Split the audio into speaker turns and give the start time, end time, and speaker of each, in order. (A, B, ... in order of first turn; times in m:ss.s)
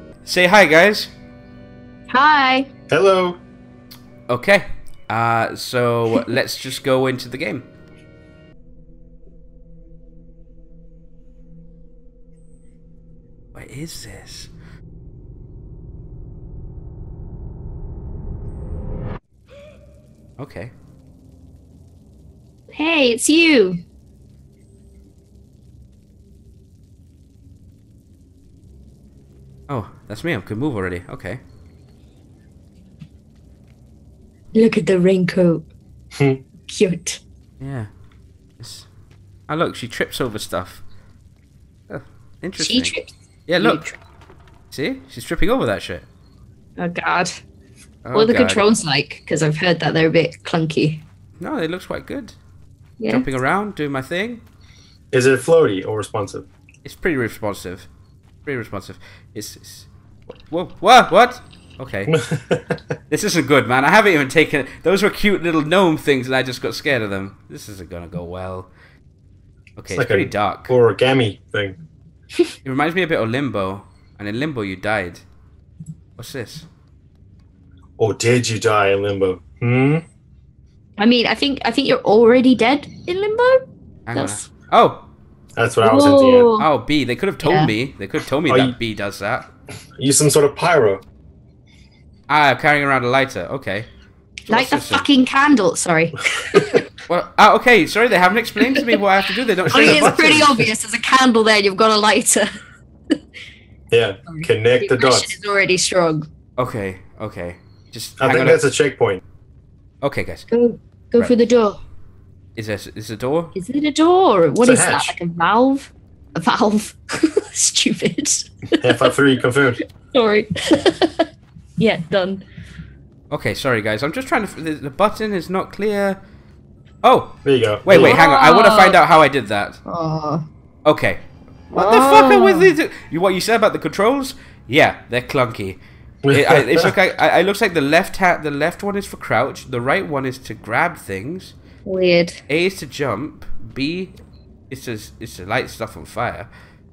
0:00.2-0:01.1 A
0:02.1-0:02.7 B
0:02.9-0:03.4 C
0:04.3-0:07.7 A
0:13.6-0:14.5 A
0:20.4-0:20.7 A
0:22.7-0:23.8 B
0:29.7-0:31.4 A
0:34.6-0:35.7 B
0:36.7-0:37.2 B
0:37.6-0:37.9 A
0:38.6-0:38.9 A
0:39.5-0:40.8 A
0:41.9-0:42.9 A
0:42.6-0:44.0 B
0:43.5-0:43.8 A
0:44.7-0:46.1 A
0:46.8-0:47.3 B
0:48.0-0:48.6 A
0:48.2-0:51.0 B
0:51.4-0:52.4 A
0:53.0-0:53.3 B
0:53.1-0:54.4 A
0:55.1-0:56.5 C
0:56.8-0:57.9 A
0:58.5-0:59.9 A
1:00.5-1:02.1 A
1:02.1-1:02.8 C
1:03.1-1:08.7 A
1:09.8-1:10.8 A
1:09.9-1:11.8 C
1:12.6-1:15.2 A
1:16.2-1:16.7 A
1:18.0-1:20.0 C
1:21.0-1:23.6 B
1:24.1-1:25.1 A
1:24.2-1:24.5 B
1:25.6-1:26.5 C
1:25.8-1:26.7 B
1:26.6-1:29.5 A
1:27.4-1:27.7 B
1:28.5-1:28.8 C
1:30.0-1:31.0 C
1:32.3-1:33.9 A
1:34.5-1:35.1 A
1:34.5-1:36.8 B
1:37.1-1:40.6 A
1:39.7-1:40.7 C
1:39.7-1:42.5 B
1:43.9-1:45.3 C
1:44.3-1:46.3 B
1:46.6-1:48.6 A
1:48.2-1:49.2 C
1:50.0-1:50.5 A
1:50.5-1:51.8 B
1:52.6-1:53.5 A
1:53.6-1:59.1 B
1:54.6-1:55.2 C
1:58.8-1:59.8 C
2:00.1-2:01.2 B
2:01.8-2:02.4 B
2:03.3-2:06.2 A
2:07.0-2:09.8 A
2:07.4-2:08.2 C
2:07.9-2:09.0 B
2:09.9-2:10.5 B
2:10.8-2:15.8 A
2:11.8-2:12.7 B
2:16.2-2:16.9 C
2:16.3-2:21.6 A
2:21.8-2:22.4 B
2:22.5-2:24.1 A
2:24.7-2:26.5 A